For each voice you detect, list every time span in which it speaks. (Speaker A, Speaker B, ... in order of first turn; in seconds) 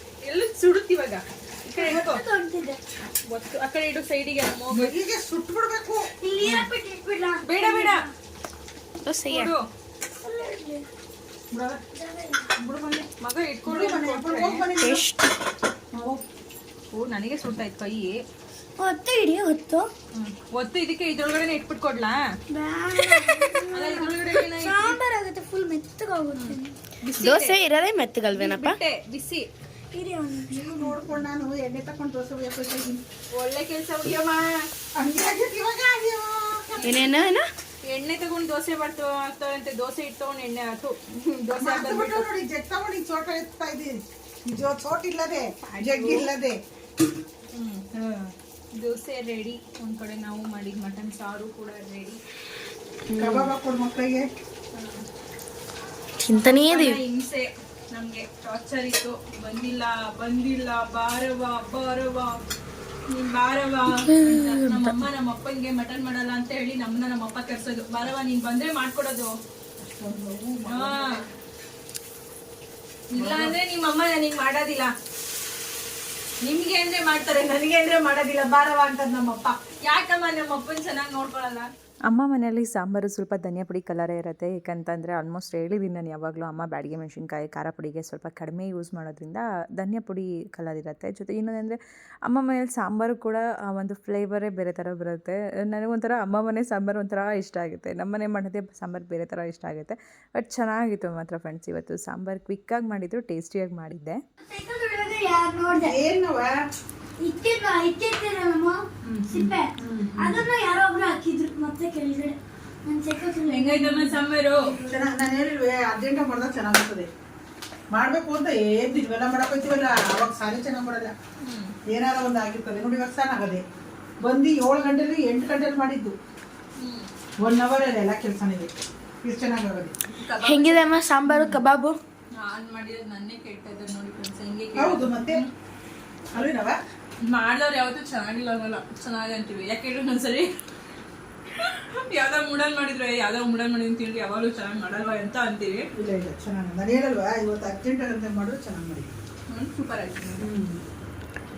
Speaker A: 0.2-2.2, 3.2-4.9, 6.4-6.7, 7.4-8.1, 9.2-9.7, 13.2-14.7, 16.9-18.2, 20.1-22.2, 23.1-25.0, 26.3-27.6, 28.3-29.5, 33.3-34.7, 37.8-42.2, 45.6-46.3, 47.5-52.2, 54.7-55.0, 56.3-62.4, 63.1-69.4, 70.7-71.2, 73.1-74.9, 76.4-81.7, 113.5-114.7, 121.4-121.8, 126.8-127.1, 130.1-130.9, 132.3-135.5, 137.2-140.5, 141.6-145.9, 149.5-150.4
Speaker B: 1.8-2.8, 6.2-8.1, 9.0-9.5, 10.2-10.8, 11.9-12.5, 14.8-15.3, 18.8-19.9, 22.5-28.8, 29.9-30.9, 36.8-37.5, 53.1-53.5, 56.2-57.0, 64.1-64.9, 104.5-106.0, 107.2-114.9, 130.4-132.0
Speaker C: 4.7-6.1, 11.5-11.8, 12.6-13.1, 13.6-15.0, 15.9-16.2, 30.5-33.0, 35.0-37.1, 41.6-46.6, 53.1-54.3, 69.8-71.3, 73.2-73.5, 105.8-106.6, 109.0-110.4, 114.8-117.1, 117.9-121.1, 121.9-123.6, 124.2-126.2, 127.4-128.7, 129.2-129.9, 134.8-135.4, 136.3-136.8, 145.9-149.1, 150.4-150.8
Speaker D: 82.1-104.2